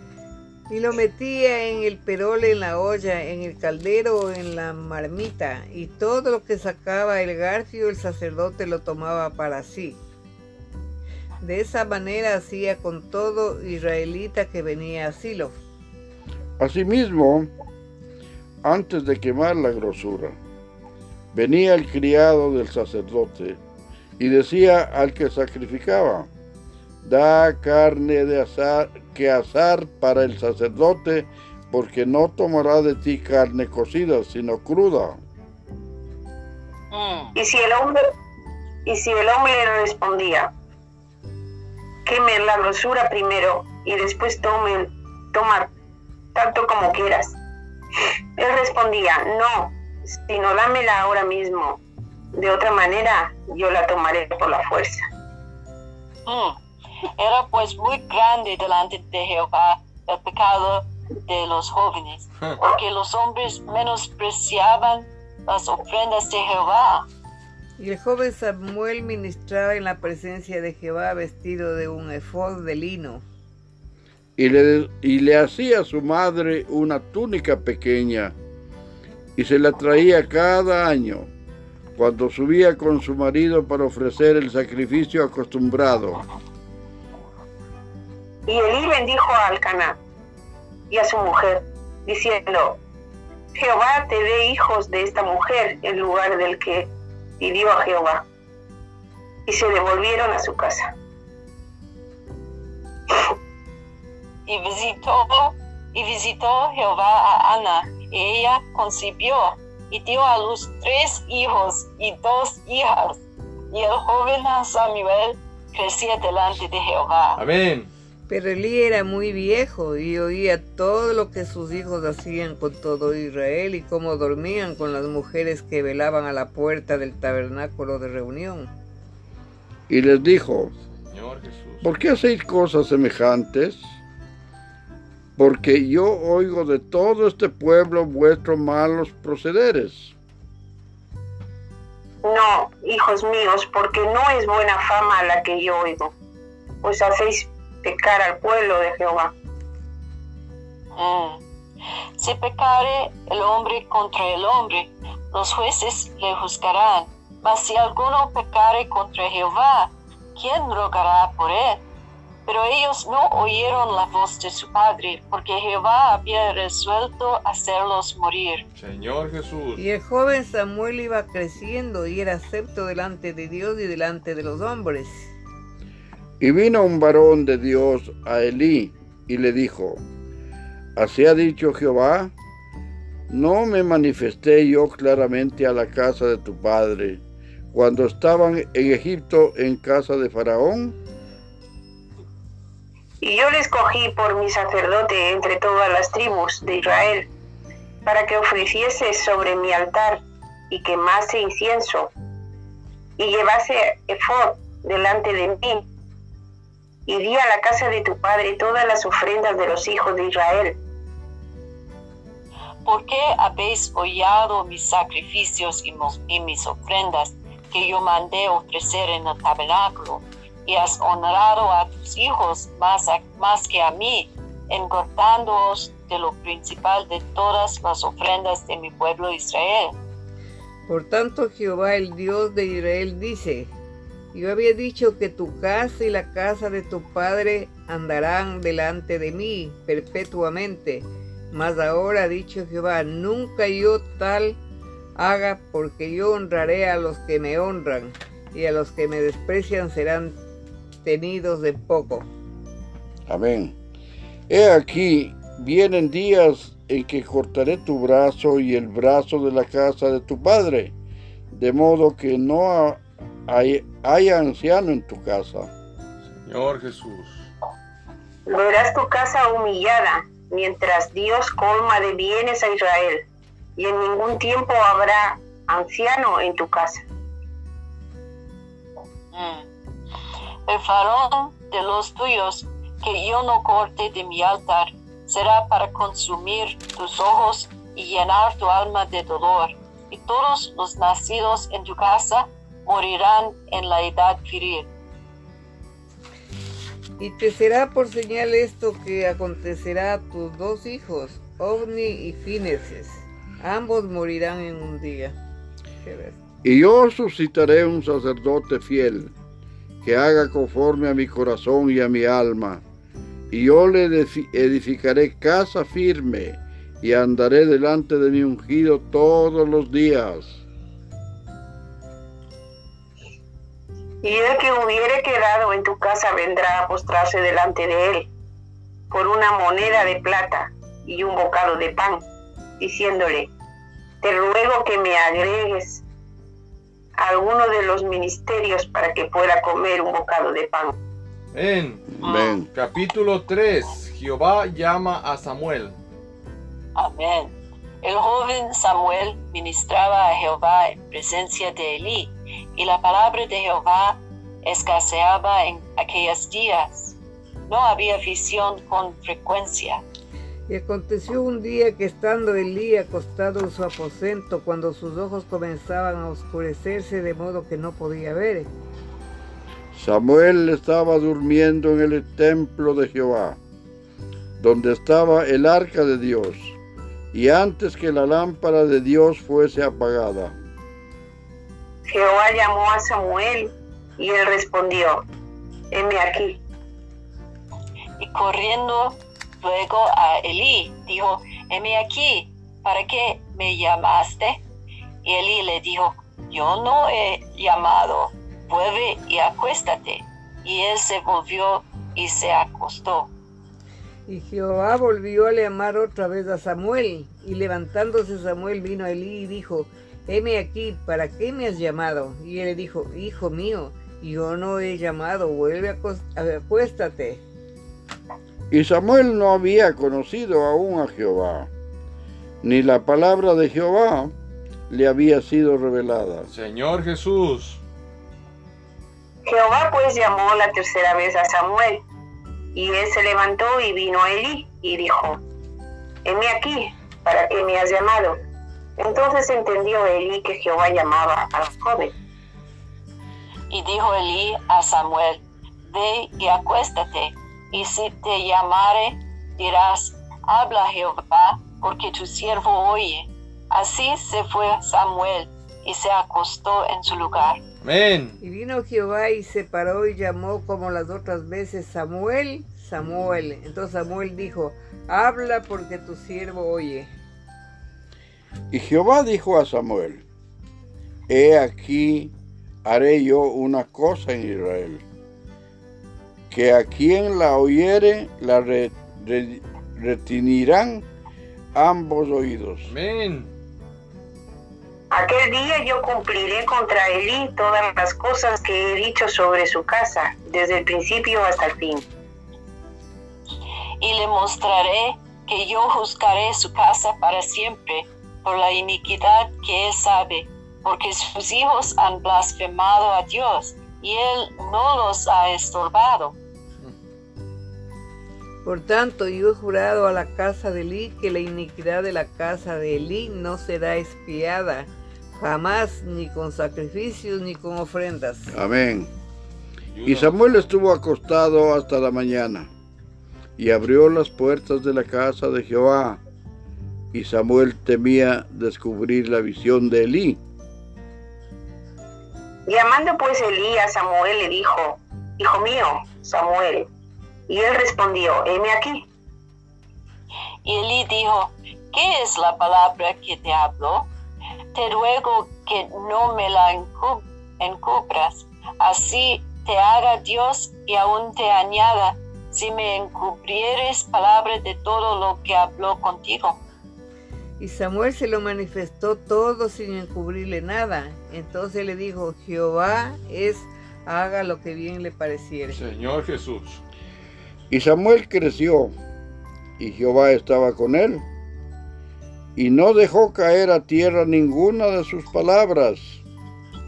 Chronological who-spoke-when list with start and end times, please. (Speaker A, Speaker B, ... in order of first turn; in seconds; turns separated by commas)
Speaker A: 0.7-10.0, Speaker A: 11.4-15.6, Speaker B: 16.6-17.5, Speaker B: 18.6-20.4, Speaker B: 21.3-23.6, Speaker B: 24.2-26.3, Speaker B: 27.0-35.2, Speaker C: 36.9-37.4, Speaker D: 37.4-38.1, Speaker D: 38.9-40.5, Speaker D: 42.0-45.7, Speaker D: 46.3-47.4, Speaker D: 48.4-51.8, Speaker D: 52.3-55.1, Speaker C: 56.3-56.6, Speaker C: 57.2-67.1, Speaker A: 67.8-73.2, Speaker B: 74.4-78.3, Speaker B: 79.4-81.3, Speaker B: 82.0-86.2, Speaker D: 88.5-90.0, Speaker D: 90.9-92.8, Speaker D: 93.5-96.9, Speaker D: 97.4-98.2, Speaker D: 99.5-100.9, Speaker C: 104.5-113.2, Speaker C: 113.7-117.4, Speaker E: 117.4-117.9, Speaker A: 118.3-128.7, Speaker B: 129.9-130.7, Speaker E: 130.8-131.9, Speaker B: 131.8-133.9, Speaker B: 135.4-140.1, Speaker D: 142.2-146.1, Speaker D: 146.8-149.3, Speaker C: 151.0-151.4, Speaker C: 152.2-161.8, Speaker C: 162.5-168.7, Speaker E: 168.8-169.8, Speaker A: 169.8-175.3, Speaker B: 176.4-180.0, Speaker B: 181.0-182.3, Speaker B: 183.3-187.2, Speaker B: 187.7-191.0, Speaker D: 193.2-197.3, Speaker D: 198.1-202.1, Speaker D: 203.2-205.8, Speaker D: 207.1-210.8, Speaker C: 212.8-229.9, Speaker A: 230.9-233.7, Speaker A: 234.3-244.6, Speaker A: 245.2-250.4, Speaker A: 251.0-252.3, Speaker B: 253.3-253.8, Speaker B: 254.5-260.9, Speaker B: 261.5-265.7, Speaker E: 266.4-267.5, Speaker D: 268.5-273.2, Speaker D: 273.8-277.0, Speaker C: 279.3-279.7, Speaker C: 280.7-294.9, Speaker A: 297.2-305.4, Speaker A: 306.1-306.4, Speaker B: 306.6-309.3, Speaker B: 310.0-312.8, Speaker B: 313.5-320.6, Speaker D: 324.2-328.3, Speaker D: 329.1-332.3, Speaker D: 332.8-333.5, Speaker D: 334.2-336.0, Speaker D: 337.2-340.9, Speaker E: 341.5-346.0, Speaker B: 342.2-342.7, Speaker C: 342.2-342.5, Speaker C: 346.9-357.2, Speaker C: 357.7-360.0, Speaker A: 360.7-368.7, Speaker B: 369.9-373.6, Speaker B: 374.6-376.8, Speaker B: 377.3-380.6, Speaker D: 382.1-385.3, Speaker D: 385.9-386.6, Speaker C: 388.2-394.6, Speaker C: 395.2-403.3, Speaker A: 404.3-417.4, Speaker B: 418.7-421.7, Speaker B: 422.6-424.3, Speaker B: 424.9-426.5, Speaker E: 426.5-427.8, Speaker D: 429.4-432.0, Speaker D: 432.7-435.4, Speaker D: 436.2-438.4, Speaker D: 439.0-442.1, Speaker C: 443.7-457.6, Speaker E: 457.8-458.4, Speaker A: 458.4-467.1, Speaker B: 468.7-470.2, Speaker B: 471.3-472.3, Speaker B: 472.9-475.0, Speaker B: 476.5-481.1, Speaker B: 481.7-482.9, Speaker E: 482.9-483.5, Speaker D: 485.1-492.1, Speaker C: 494.0-506.4, Speaker A: 508.6-518.5, Speaker B: 518.5-519.1, Speaker E: 519.9-520.4, Speaker B: 520.0-522.7, Speaker B: 523.6-526.2, Speaker B: 527.1-530.4, Speaker D: 532.7-536.9, Speaker D: 537.5-539.0, Speaker C: 540.6-544.1, Speaker C: 544.7-556.6, Speaker A: 557.6-565.8, Speaker E: 565.7-566.8, Speaker B: 567.7-568.9, Speaker B: 569.8-571.2, Speaker B: 572.6-576.2